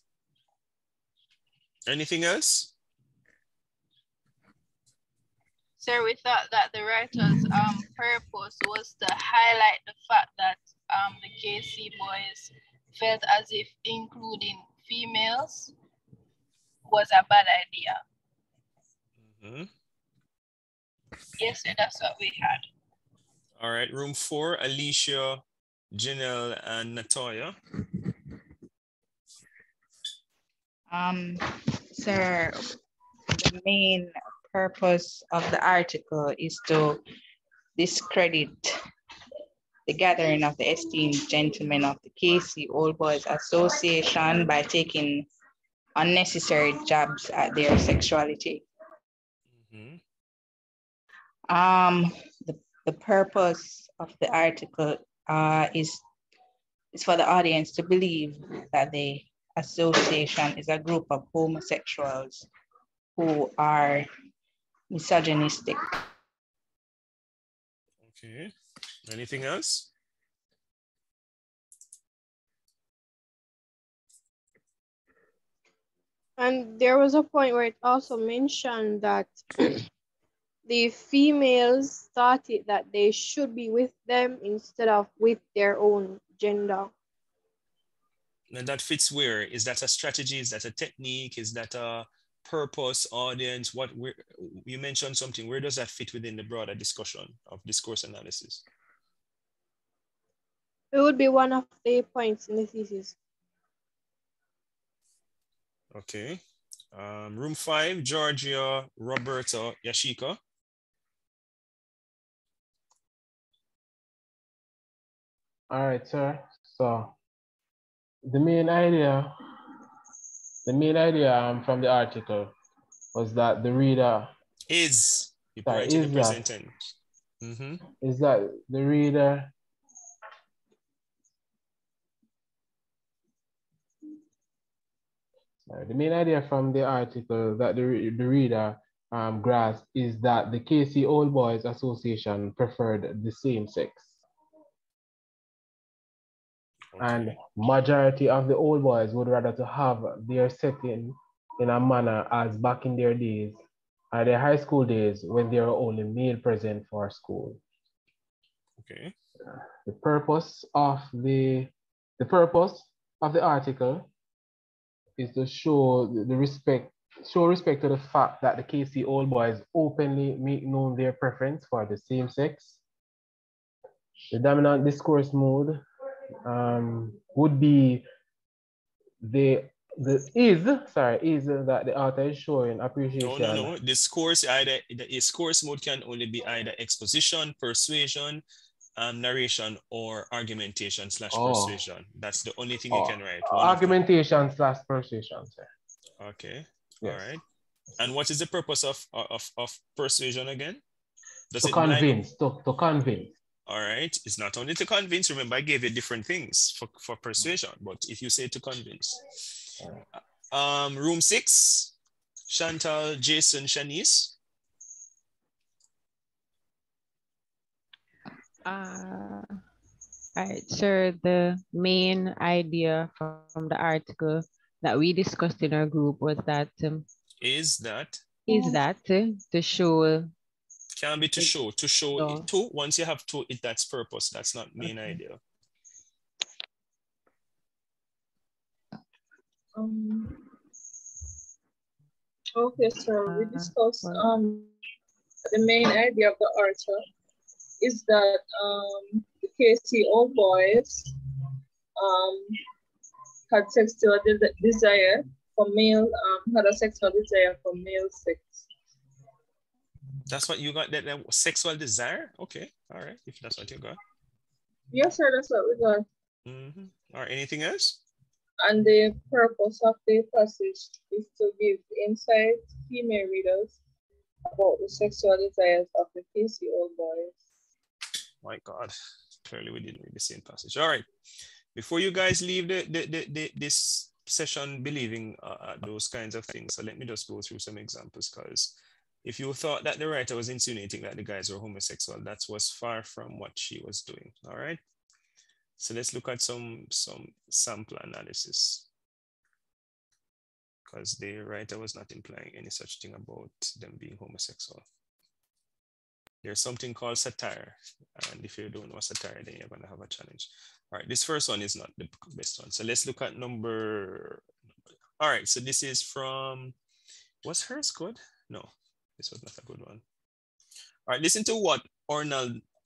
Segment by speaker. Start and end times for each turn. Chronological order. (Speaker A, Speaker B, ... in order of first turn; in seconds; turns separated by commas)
Speaker A: 1.9-2.7, Speaker B: 5.8-15.7, Speaker B: 16.9-18.0, Speaker A: 19.3-19.7, Speaker B: 21.4-22.6, Speaker A: 23.6-27.6, Speaker C: 30.9-32.6, Speaker C: 33.3-37.0, Speaker C: 37.8-38.7, Speaker C: 39.9-45.3, Speaker C: 46.0-48.6, Speaker A: 49.6-50.0, Speaker C: 51.5-56.0, Speaker C: 56.9-62.5, Speaker C: 63.2-64.1, Speaker C: 64.9-65.8, Speaker A: 68.0-68.5, Speaker A: 69.1-69.9, Speaker D: 76.4-79.8, Speaker D: 80.7-86.9, Speaker A: 88.5-98.6, Speaker D: 100.9-103.2, Speaker A: 105.9-106.4, Speaker A: 106.9-110.4, Speaker E: 115.7-117.1, Speaker E: 118.2-119.3, Speaker E: 120.7-122.5, Speaker E: 123.2-124.3, Speaker A: 124.7-126.7, Speaker E: 125.7-126.4, Speaker A: 127.4-127.8, Speaker E: 128.0-129.5, Speaker E: 135.7-144.2, Speaker A: 146.9-147.4, Speaker E: 147.0-153.6, Speaker E: 154.1-157.6, Speaker A: 158.8-159.1, Speaker E: 159.9-164.1, Speaker E: 165.2-172.8, Speaker E: 174.3-175.8, Speaker E: 176.5-178.1, Speaker E: 179.2-183.7, Speaker A: 183.2-188.4, Speaker A: 189.0-194.0, Speaker E: 191.3-191.8, Speaker E: 192.9-195.7, Speaker A: 196.2-197.4, Speaker E: 197.0-197.3, Speaker A: 198.0-200.8, Speaker A: 201.5-202.1, Speaker E: 201.6-203.3, Speaker A: 203.7-209.2, Speaker A: 210.5-211.9, Speaker A: 212.5-214.3, Speaker F: 218.7-219.6, Speaker F: 220.4-227.1, Speaker A: 227.4-228.2, Speaker F: 228.5-230.3, Speaker A: 231.0-235.4, Speaker F: 232.2-232.5, Speaker F: 234.8-235.2, Speaker G: 239.8-240.4, Speaker G: 242.6-244.7, Speaker F: 243.3-244.4, Speaker G: 245.5-247.0, Speaker G: 247.8-251.1, Speaker G: 252.0-252.5, Speaker G: 253.5-258.7, Speaker A: 260.3-264.0, Speaker G: 264.9-266.1, Speaker A: 266.5-268.0, Speaker G: 268.6-273.8, Speaker G: 274.5-277.4, Speaker A: 278.4-281.1, Speaker A: 281.8-294.8, Speaker A: 295.8-298.9, Speaker A: 300.9-304.8, Speaker A: 306.4-314.4, Speaker A: 315.2-316.8, Speaker A: 317.4-320.0, Speaker A: 321.1-322.6